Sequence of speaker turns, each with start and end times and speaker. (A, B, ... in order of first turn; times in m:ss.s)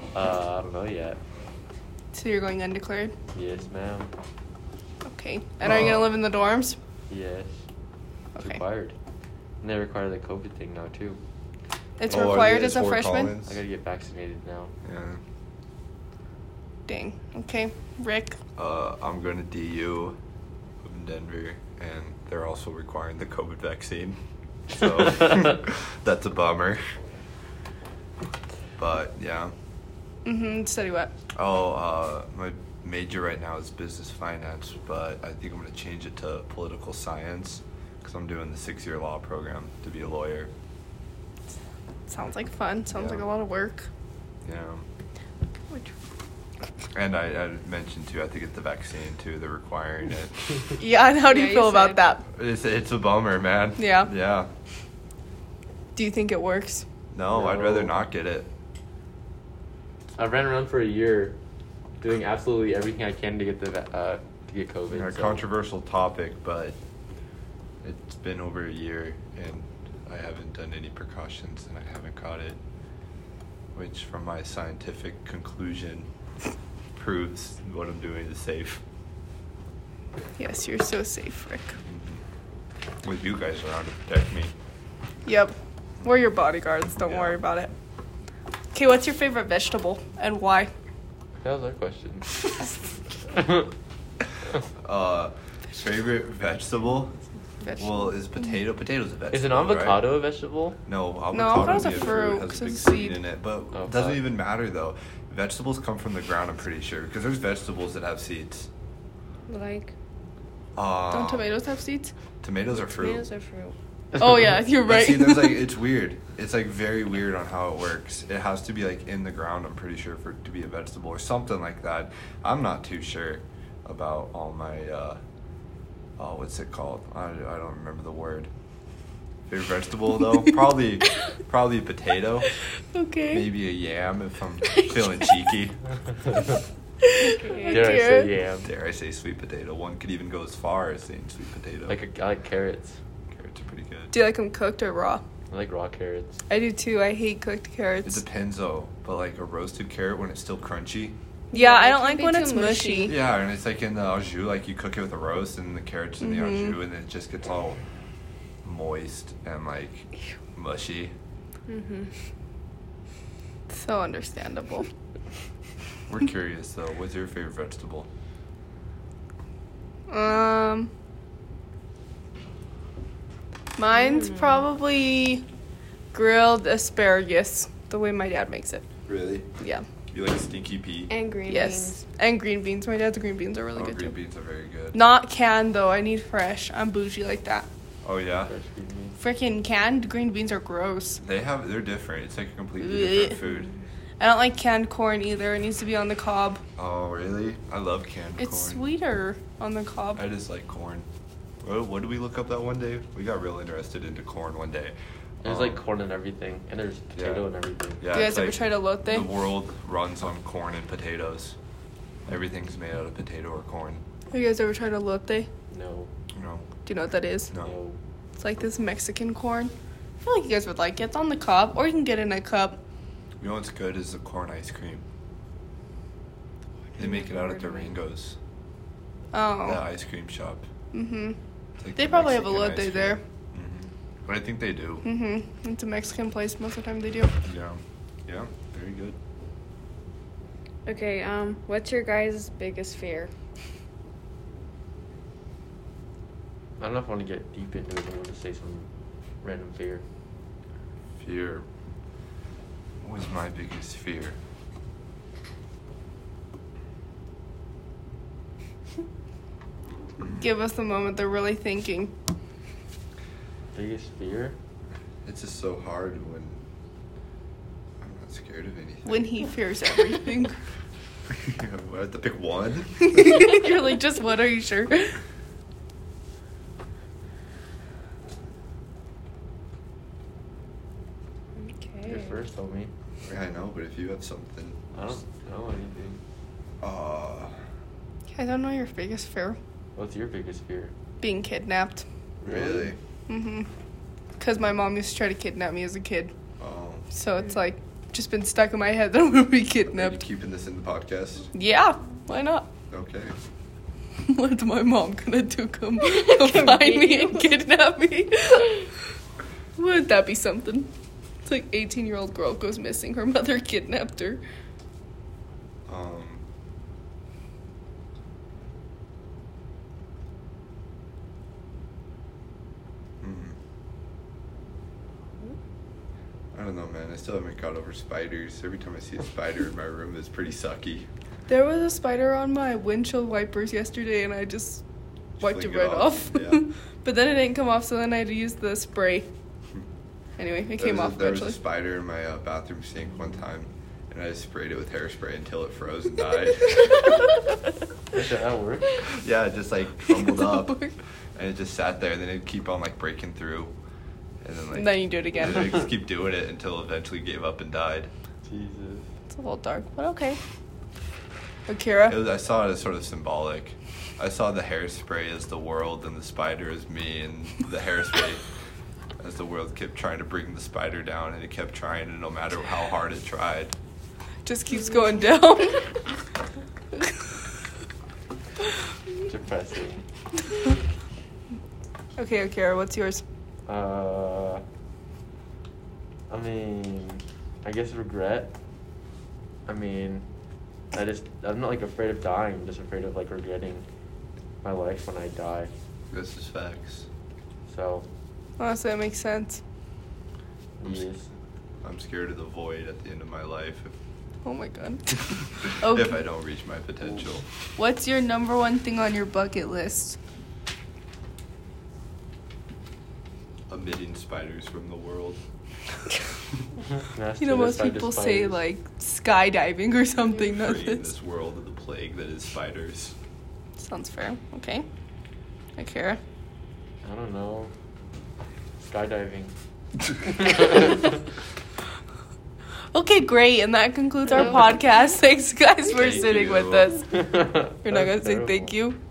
0:00.1-0:01.2 A
0:02.1-0:03.1 B
0:03.3-0:04.1 A
0:05.0-0:06.8 B
0:05.6-0:06.0 C
0:07.1-0:07.6 A
0:08.4-0:08.9 A
0:09.6-0:11.2 A
0:12.0-0:13.3 B
0:12.1-0:12.6 A
0:12.1-0:13.6 C
0:13.4-0:14.7 A
0:14.8-0:15.2 C
0:16.9-0:18.4 B
0:18.6-0:20.2 C
0:20.8-0:26.8 C
0:28.8-0:29.5 C
0:30.2-0:31.1 B
0:31.3-0:40.5 C
0:42.1-0:43.9 B
0:42.9-0:43.3 C
0:44.4-0:44.8 C
0:46.9-0:50.5 C
0:50.8-0:52.2 B
0:51.2-0:52.0 D
0:52.3-0:54.5 C
0:53.8-0:54.1 B
0:55.9-0:56.8 B
0:57.1-0:58.5 C
0:57.3-0:57.9 A
1:00.2-1:01.4 A
1:02.0-1:05.4 A
1:04.9-1:06.8 C
1:07.8-1:12.6 C
1:13.7-1:16.1 C
1:16.9-1:18.8 C
1:20.4-1:21.7 B
1:21.9-1:22.2 C
1:23.0-1:24.5 C
1:25.2-1:27.7 B
1:27.0-1:27.4 C
1:28.7-1:30.7 B
1:31.4-1:32.7 A
1:33.3-1:33.6 A
1:34.8-1:37.2 C
1:37.8-1:40.1 C
1:39.3-1:40.8 A
1:40.8-1:48.7 C
1:41.3-1:43.2 B
1:43.7-1:44.2 A
1:49.5-1:49.9 D
1:50.8-1:51.4 C
1:51.1-1:52.1 B
1:52.4-1:53.2 C
1:52.7-1:53.7 D
1:54.2-1:55.6 B
1:54.8-2:05.2 C
2:06.2-2:08.5 C
2:09.5-2:12.5 C
2:12.9-2:13.4 B
2:13.3-2:15.8 C
2:14.7-2:15.4 B
2:17.0-2:18.3 B
2:17.2-2:17.9 D
2:17.6-2:18.7 A
2:18.6-2:22.0 C
2:21.9-2:23.0 A
2:23.3-2:24.1 C
2:24.1-2:25.2 B
2:25.5-2:26.4 A
2:26.5-2:28.2 B
2:28.0-2:31.2 C
2:31.5-2:33.2 D
2:31.5-2:33.2 B
2:33.1-2:37.8 C
2:36.2-2:36.8 B
2:38.6-2:41.1 C
2:41.7-2:42.1 D
2:43.7-2:44.9 B
2:46.1-2:48.1 C
2:50.1-2:50.9 B
2:53.8-2:55.4 B
2:53.9-2:54.6 D
2:56.1-2:58.8 B
2:59.0-2:59.5 C
3:00.1-3:01.1 C
3:01.1-3:02.0 D
3:01.4-3:04.1 B
3:03.8-3:05.0 C
3:04.9-3:07.7 B
3:08.0-3:08.5 C
3:08.4-3:09.2 A
3:09.2-3:11.2 B
3:11.2-3:13.7 C
3:12.8-3:13.4 B
3:14.2-3:16.6 B
3:16.8-3:18.8 C
3:18.4-3:20.2 B
3:20.2-3:21.1 C
3:21.6-3:25.8 C
3:25.4-3:28.0 A
3:27.2-3:27.5 C
3:28.0-3:31.6 C
3:28.1-3:29.3 B
3:32.3-3:34.0 C
3:34.3-3:35.5 B
3:35.7-3:36.1 A
3:36.4-3:36.6 C
3:36.8-3:37.5 B
3:37.6-3:38.0 A
3:38.4-3:42.8 B
3:43.4-3:45.0 C
3:47.0-3:48.4 C
3:47.0-3:47.7 D
3:49.3-3:49.8 B
3:49.6-3:50.6 C
3:50.9-3:51.4 B
3:51.8-3:55.0 C
3:52.0-3:53.2 B
3:55.0-3:57.4 B
3:57.4-3:59.2 C
4:00.8-4:03.3 D
4:06.8-4:08.9 A
4:09.4-4:10.0 A
4:11.2-4:11.6 C
4:13.0-4:14.4 C
4:20.2-4:20.4 C
4:20.3-4:22.1 B
4:23.7-4:24.6 A
4:25.2-4:26.6 C
4:28.0-4:29.3 C
4:29.0-4:30.6 B
4:31.3-4:33.5 C
4:33.1-4:35.2 B
4:41.6-4:42.3 D
4:42.0-4:42.9 A
4:43.2-4:45.2 C
4:44.9-4:46.2 A
4:46.8-4:47.5 C
4:48.3-4:49.6 B
4:50.0-4:50.9 A
4:51.2-4:52.0 B
4:52.4-4:53.0 A
4:52.4-4:53.0 C
4:53.3-4:53.7 B
4:54.4-4:56.3 B
4:56.6-4:57.1 C
4:57.1-5:00.2 B
4:59.9-5:01.5 C
5:01.5-5:02.7 B
5:02.9-5:03.4 C
5:04.2-5:08.9 B
5:06.1-5:07.4 D
5:09.8-5:10.9 B
5:11.4-5:14.4 B
5:15.9-5:16.4 C
5:23.2-5:23.6 C
5:26.5-5:31.1 C
5:31.5-5:34.8 B
5:35.4-5:36.6 C
5:35.4-5:39.3 B
5:40.4-5:41.6 B
5:40.8-5:47.3 C
5:48.1-5:48.9 A
5:49.0-5:53.7 C
5:50.1-5:50.9 B
5:54.4-5:58.1 C
5:54.7-5:55.8 B
5:58.4-5:59.0 A
5:59.3-6:00.4 B
6:01.7-6:02.2 B
6:02.1-6:08.4 C
6:09.2-6:13.8 C
6:14.4-6:16.0 B
6:19.2-6:20.0 A
6:22.2-6:23.2 B
6:23.7-6:24.6 A
6:26.3-6:28.5 A
6:29.6-6:30.2 A
6:30.9-6:33.8 A
6:34.6-6:35.7 A
6:36.1-6:37.0 C
6:37.7-6:38.1 A
6:38.6-6:39.6 B
6:40.8-6:41.3 A
6:41.8-6:43.9 C
6:44.4-6:46.2 B
6:45.8-6:47.4 C
6:47.8-6:50.2 B
6:53.7-6:55.4 C
6:57.0-6:58.6 A
6:57.4-7:01.1 B
7:00.4-7:03.1 C
7:03.8-7:04.8 B
7:05.8-7:06.2 B
7:07.0-7:07.7 A
7:08.8-7:09.5 A
7:10.2-7:11.1 A
7:12.9-7:17.1 B
7:14.3-7:14.5 D
7:16.0-7:17.0 C
7:17.1-7:18.7 A
7:17.8-7:19.0 B